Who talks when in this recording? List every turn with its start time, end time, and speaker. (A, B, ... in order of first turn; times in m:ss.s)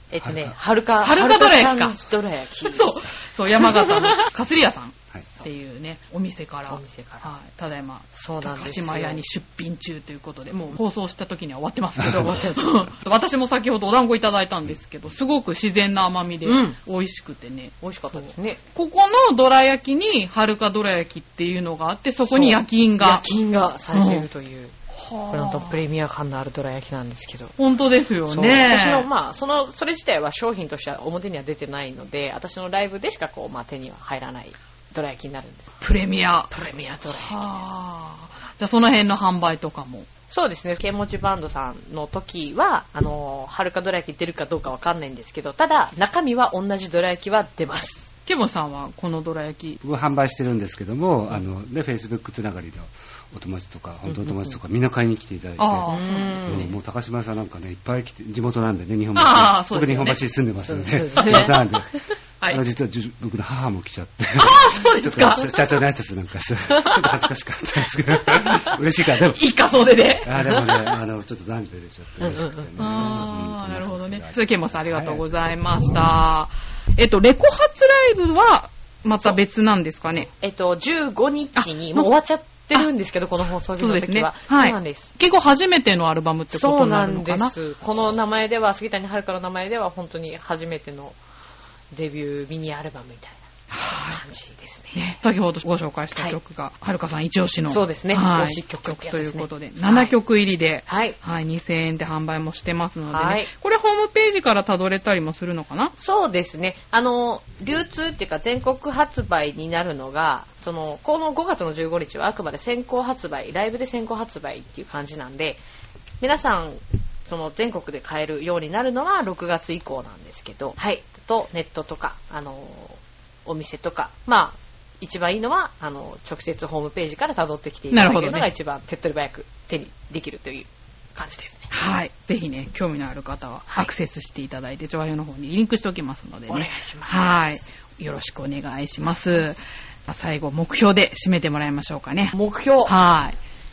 0:00.1-0:03.1 A
0:01.0-0:02.0 B
0:02.6-0:23.3 B
0:06.7-0:07.3 A
0:08.1-0:09.2 A
0:12.1-0:12.9 A
0:16.4-0:16.8 A
0:17.8-0:18.6 A
0:22.2-0:24.8 A
0:23.9-0:24.3 B
0:24.9-0:25.8 B
0:25.3-0:27.6 A
0:27.6-0:29.1 B
0:28.2-0:35.8 A
0:35.8-0:36.5 B
0:36.5-0:37.6 A
0:37.1-0:40.1 B
0:40.3-0:48.1 A
0:48.2-0:49.8 B
0:49.8-1:01.9 C
0:54.0-0:54.6 A
0:55.6-0:56.7 B
0:55.9-0:56.7 A
0:59.1-1:00.2 B
1:00.6-1:02.0 A
1:01.2-1:01.6 B
1:02.5-1:09.4 C
1:04.4-1:05.5 B
1:08.4-1:08.6 B
1:09.3-1:11.0 B
1:10.2-1:15.2 C
1:12.2-1:13.1 A
1:12.8-1:20.3 B
1:20.2-1:25.1 A
1:21.6-1:22.1 B
1:23.8-1:27.5 B
1:26.5-1:31.2 A
1:31.9-1:35.0 A
1:33.7-1:34.2 B
1:34.9-1:45.9 B
1:37.7-1:40.1 A
1:40.9-1:41.2 A
1:43.1-1:43.5 A
1:46.0-1:55.6 A
1:56.2-2:11.7 A
2:07.9-2:08.5 B
2:11.7-2:23.4 B
2:16.5-2:17.6 A
2:22.3-2:22.9 A